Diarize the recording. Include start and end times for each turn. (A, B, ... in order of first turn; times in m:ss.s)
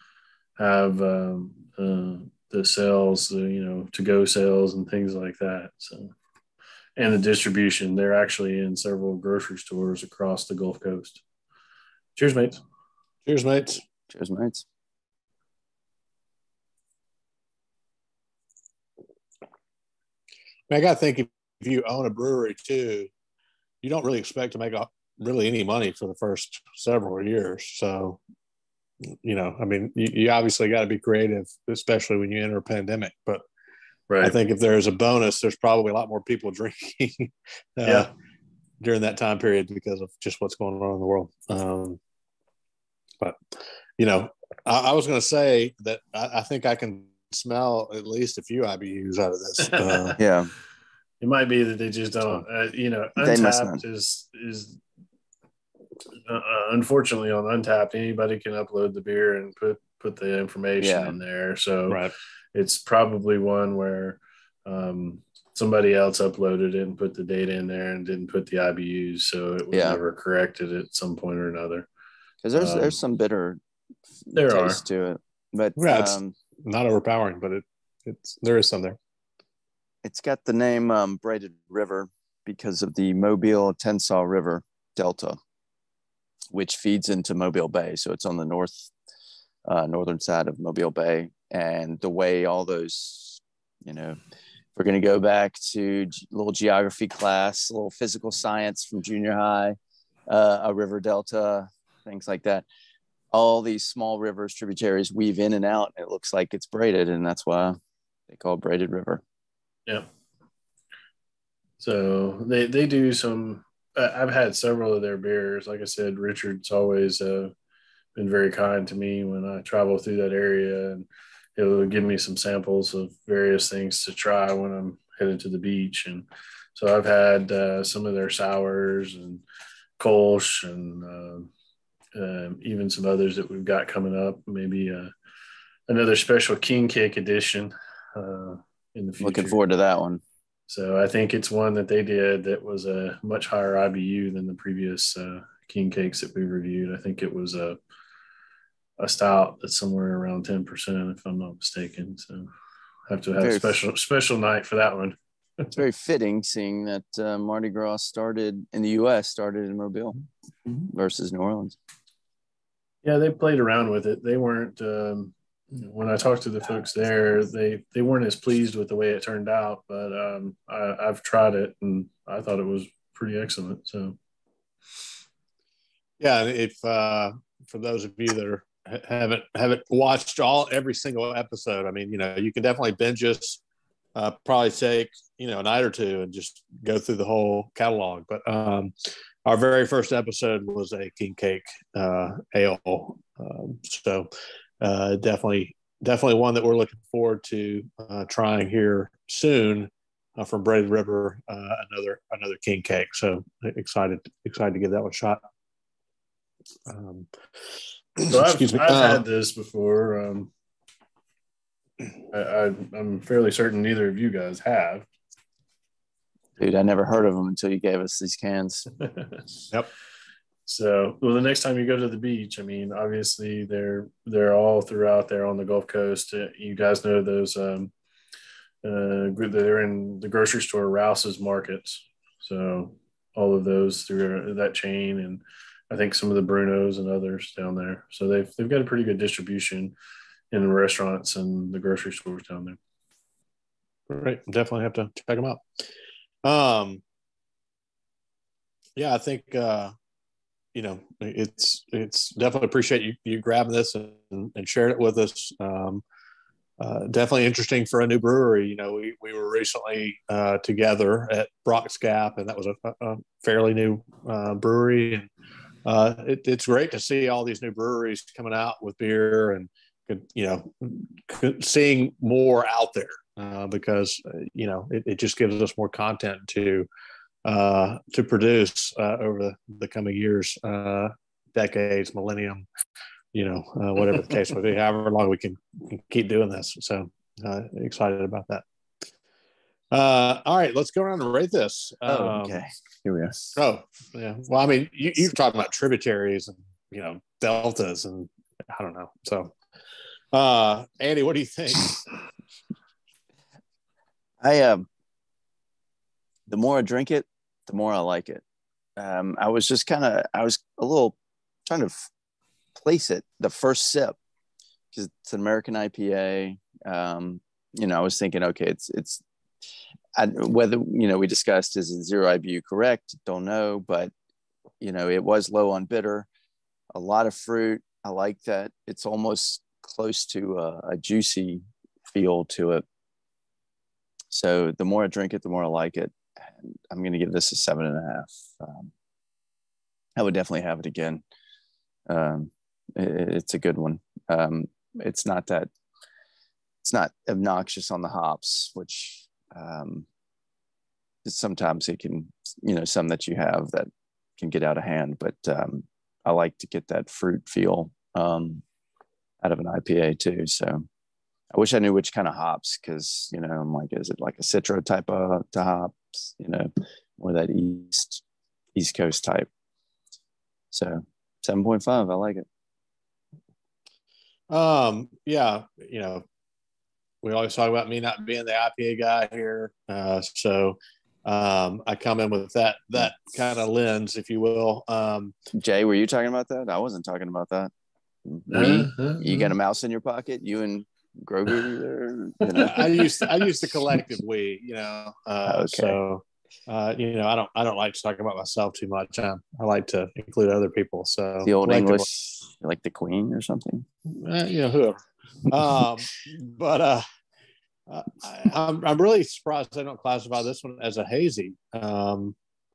0:00.6-0:06.1 A
0:07.0-0:11.2 A
0:12.2-0:12.6 A
0:13.3-0:13.8 B
0:14.1-0:14.6 C
0:20.7-0:23.1 B
0:23.8-0:28.2 B
0:29.1-0:33.4 B
0:34.1-0:34.4 A
0:34.2-0:38.1 B
0:38.8-0:42.0 B
0:44.0-0:50.2 B
0:49.7-0:50.2 A
0:50.2-0:50.5 C
0:51.2-0:54.8 A
0:53.2-0:53.8 C
0:56.3-1:02.0 A
1:00.8-1:01.2 C
1:01.9-1:02.1 B
1:02.5-1:11.9 A
1:09.7-1:10.0 C
1:12.4-1:13.6 C
1:12.5-1:13.0 A
1:14.3-1:16.4 C
1:14.3-1:14.8 A
1:15.8-1:19.0 B
1:20.0-1:25.4 C
1:26.5-1:28.9 C
1:29.7-1:34.2 C
1:34.8-1:39.8 C
1:40.3-1:42.7 C
1:43.3-1:47.8 C
1:48.3-1:49.2 C
1:51.8-1:57.5 A
1:58.2-2:09.4 A
2:10.0-2:11.5 A
2:12.2-2:15.1 A
2:15.9-2:19.6 A
2:19.2-2:20.2 C
2:20.7-2:27.8 A
2:29.0-2:32.5 A
2:33.1-2:35.7 A
2:33.4-2:33.7 C
2:35.7-2:41.8 C
2:43.0-2:54.2 A
2:56.2-3:03.6 B
3:04.2-3:08.9 B
3:09.5-3:14.3 B
3:14.8-3:25.4 B
3:26.9-3:27.3 B
3:28.2-3:29.2 B
3:28.3-3:30.5 A
3:32.3-3:35.1 A
3:36.6-3:38.9 C
3:39.1-3:39.4 A
3:40.7-3:47.9 A
3:48.8-4:00.0 A
4:00.5-4:02.8 A
4:04.1-4:05.6 B
4:06.4-4:07.0 B
4:09.0-4:09.9 B
4:10.8-4:16.0 B
4:16.8-4:25.3 B
4:25.8-4:36.9 B
4:37.4-4:42.6 B
4:43.3-4:48.6 B
4:49.9-4:52.6 B
4:52.1-4:53.6 C
4:53.6-4:59.5 B
5:00.3-5:02.1 B
5:04.4-5:04.9 C
5:06.5-5:08.4 C
5:09.0-5:11.2 C
5:11.7-5:12.0 C
5:12.8-5:14.2 C
5:14.9-5:19.2 C
5:20.2-5:24.1 C
5:24.8-5:26.3 C
5:27.0-5:32.8 C
5:34.3-5:38.9 C
5:40.2-5:41.2 C
5:42.1-5:45.7 C
5:46.8-5:50.1 C
5:51.2-5:58.6 C
5:59.4-6:00.8 C
6:01.5-6:08.2 C
6:08.8-6:09.5 C
6:10.7-6:12.4 C
6:14.5-6:16.2 B
6:17.2-6:25.3 B
6:25.5-6:27.7 C
6:28.3-6:33.0 C
6:28.5-6:29.5 A
6:32.6-6:42.1 B
6:32.6-6:33.0 A
6:35.5-6:36.0 C
6:41.4-6:43.9 C
6:44.1-6:47.0 B
6:47.9-6:52.4 B